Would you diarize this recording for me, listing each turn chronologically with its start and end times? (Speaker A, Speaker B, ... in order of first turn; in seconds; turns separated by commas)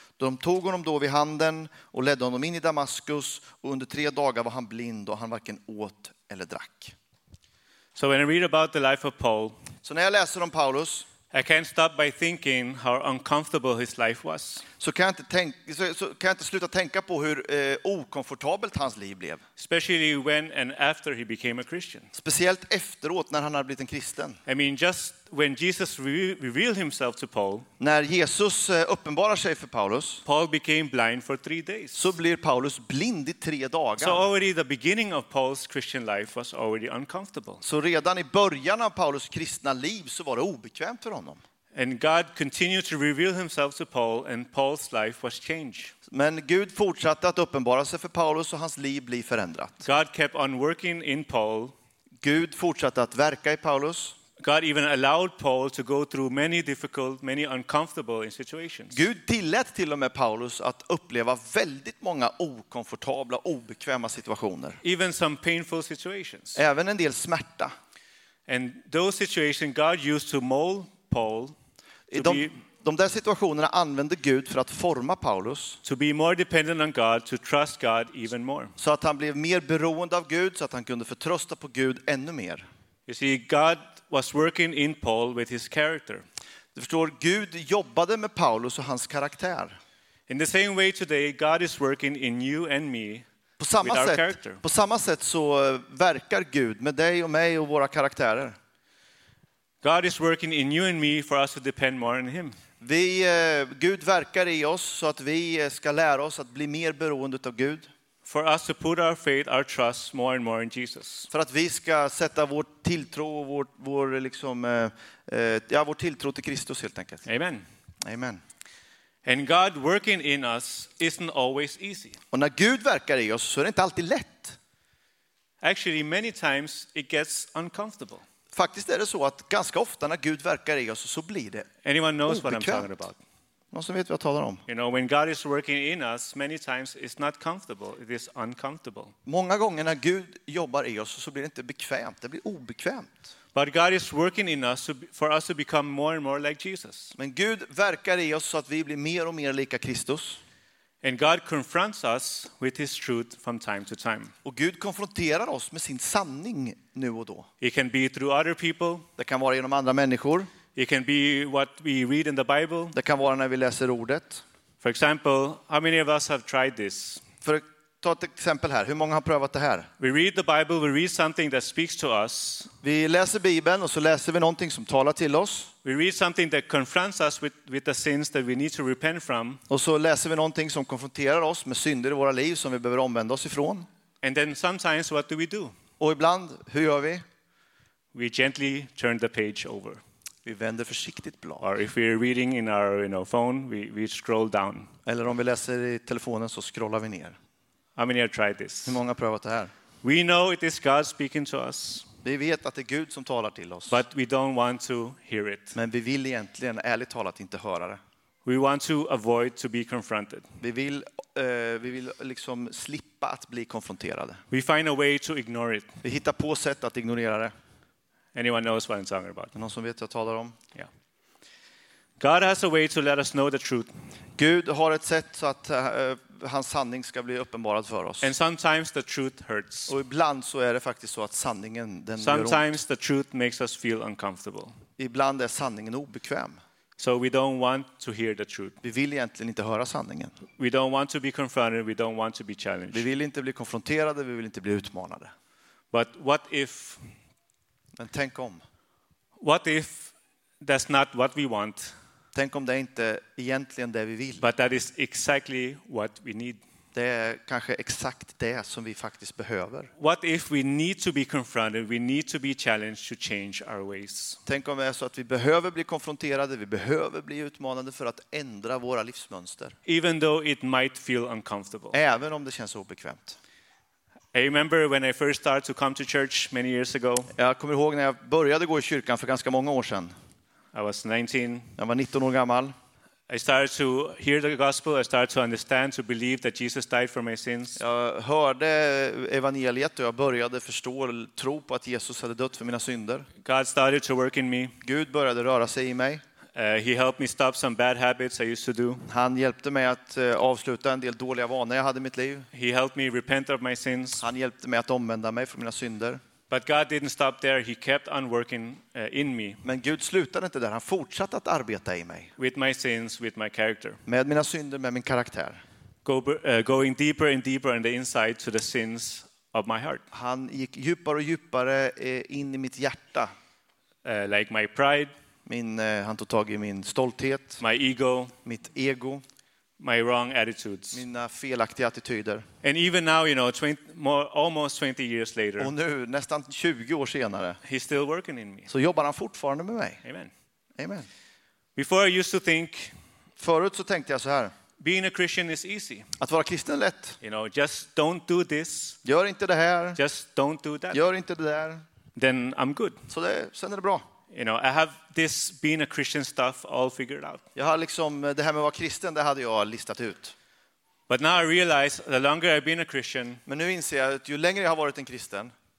Speaker A: 0.2-7.0, Speaker B: 8.0-9.6, Speaker A: 9.8-11.1, Speaker B: 11.3-14.6, Speaker A: 14.8-19.4, Speaker B: 19.6-22.1, Speaker A: 22.1-24.4, Speaker B: 24.5-27.7, Speaker A: 27.8-30.2, Speaker B: 30.3-32.1, Speaker A: 31.9-34.2, Speaker B: 34.0-37.6, Speaker A: 37.6-41.4, Speaker B: 41.7-45.9, Speaker A: 46.1-49.9, Speaker B: 49.9-51.8, Speaker A: 52.2-54.2, Speaker B: 54.4-59.0, Speaker A: 58.9-64.8, Speaker B: 64.8-66.6, Speaker A: 66.5-67.7, Speaker B: 68.5-71.5, Speaker A: 72.1-75.8, Speaker B: 72.1-72.5, Speaker B: 75.8-78.7, Speaker A: 78.8-82.7, Speaker B: 83.1-86.2, Speaker A: 86.8-89.8, Speaker B: 90.3-93.3, Speaker A: 93.6-98.6, Speaker B: 93.8-94.6, Speaker B: 99.8-102.6, Speaker A: 102.8-107.9, Speaker B: 108.2-111.3, Speaker A: 111.3-117.2, Speaker B: 117.3-117.7, Speaker A: 118.0-118.4, Speaker B: 119.2-122.2, Speaker A: 122.3-124.6, Speaker B: 125.6-128.2, Speaker A: 128.5-131.7, Speaker B: 131.8-133.2, Speaker A: 132.3-132.9, Speaker A: 133.7-134.6, Speaker B: 134.7-139.1, Speaker A: 139.3-143.2, Speaker B: 143.6-147.1, Speaker A: 147.2-150.4, Speaker B: 151.0-154.3, Speaker A: 154.4-157.5, Speaker B: 157.6-159.1, Speaker A: 159.2-160.5, Speaker B: 160.8-162.9, Speaker A: 162.9-164.4, Speaker B: 164.8-167.2, Speaker A: 167.4-169.9, Speaker B: 170.0-172.7, Speaker A: 172.8-175.7, Speaker B: 175.8-179.6, Speaker A: 179.7-183.9, Speaker B: 184.2-185.8, Speaker A: 186.0-187.2, Speaker B: 188.1-190.0, Speaker A: 190.4-191.7, Speaker B: 191.6-194.9, Speaker A: 195.1-197.4, Speaker B: 198.0-199.0, Speaker A: 198.9-199.7, Speaker B: 200.0-202.1, Speaker A: 202.2-204.0, Speaker B: 203.9-205.8, Speaker A: 205.8-208.0, Speaker B: 208.4-210.5, Speaker A: 210.6-214.4, Speaker B: 214.5-216.0, Speaker A: 216.0-217.5, Speaker B: 218.3-219.5, Speaker A: 219.6-220.6, Speaker B: 222.2-223.9, Speaker A: 224.4-228.3, Speaker B: 228.2-229.9, Speaker A: 229.9-232.7, Speaker B: 232.2-234.8, Speaker A: 235.0-236.6, Speaker B: 237.0-238.8, Speaker A: 238.8-240.4, Speaker B: 240.6-243.1, Speaker A: 242.9-245.3, Speaker B: 245.9-247.0, Speaker A: 248.0-248.6, Speaker B: 249.4-251.9, Speaker A: 252.3-254.4, Speaker B: 254.4-256.6, Speaker A: 256.9-259.9, Speaker B: 260.0-264.4, Speaker A: 264.5-269.8, Speaker B: 269.9-272.0, Speaker A: 271.9-273.4, Speaker B: 274.3-277.3, Speaker A: 277.4-280.1, Speaker B: 280.7-281.7, Speaker A: 281.8-282.7, Speaker B: 283.3-287.8, Speaker A: 287.8-293.3, Speaker B: 293.4-294.8, Speaker A: 294.8-296.2, Speaker B: 296.6-299.0, Speaker A: 299.1-302.5, Speaker B: 302.5-304.2, Speaker A: 304.2-306.2, Speaker B: 306.5-309.6, Speaker A: 309.6-312.3, Speaker B: 312.4-314.0, Speaker A: 314.1-315.6, Speaker B: 316.1-320.0, Speaker A: 320.1-323.3, Speaker B: 324.0-325.1, Speaker A: 325.5-327.6, Speaker B: 327.6-328.3, Speaker A: 328.4-329.2, Speaker B: 329.8-331.0, Speaker A: 330.9-332.5, Speaker B: 332.6-335.7, Speaker A: 335.6-337.6, Speaker B: 337.6-338.7, Speaker A: 338.7-340.0, Speaker B: 340.0-340.3, Speaker A: 340.8-341.1, Speaker B: 341.8-342.9, Speaker A: 343.4-344.5, Speaker B: 344.8-346.1, Speaker A: 346.2-347.2, Speaker B: 347.2-349.0, Speaker A: 349.0-350.0, Speaker B: 350.0-351.0, Speaker A: 350.9-351.8, Speaker B: 352.2-353.0, Speaker A: 353.1-354.1, Speaker B: 354.3-357.4, Speaker A: 357.6-360.3, Speaker B: 361.1-363.4, Speaker A: 363.5-365.5